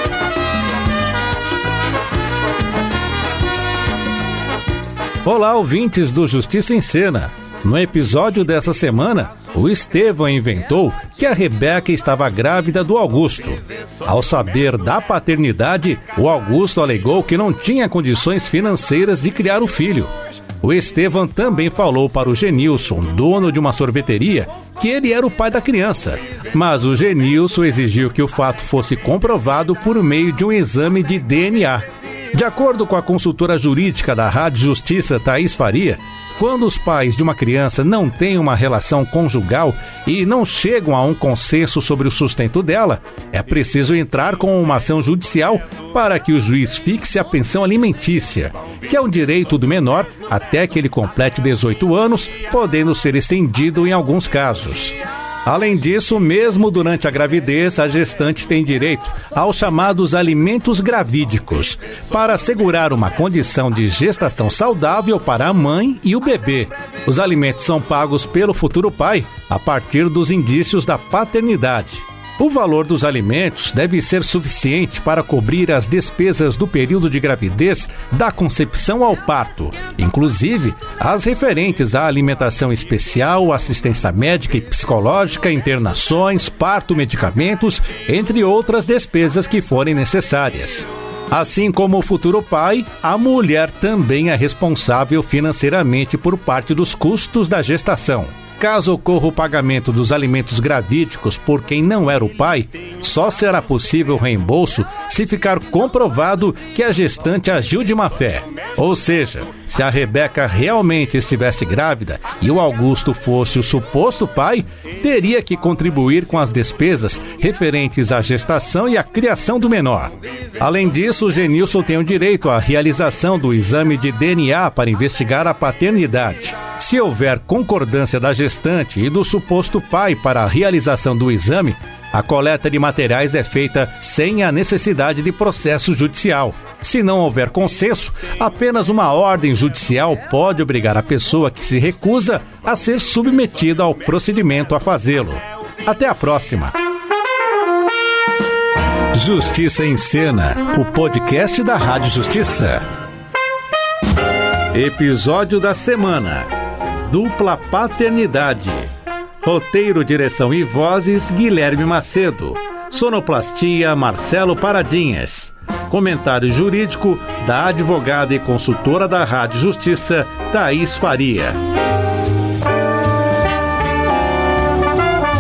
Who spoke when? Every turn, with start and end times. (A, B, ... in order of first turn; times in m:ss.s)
0:05.2-2:26.7 A
2:29.1-2:32.8 A
2:34.7-2:36.5 A
2:37.1-2:38.9 A
2:39.4-2:51.6 A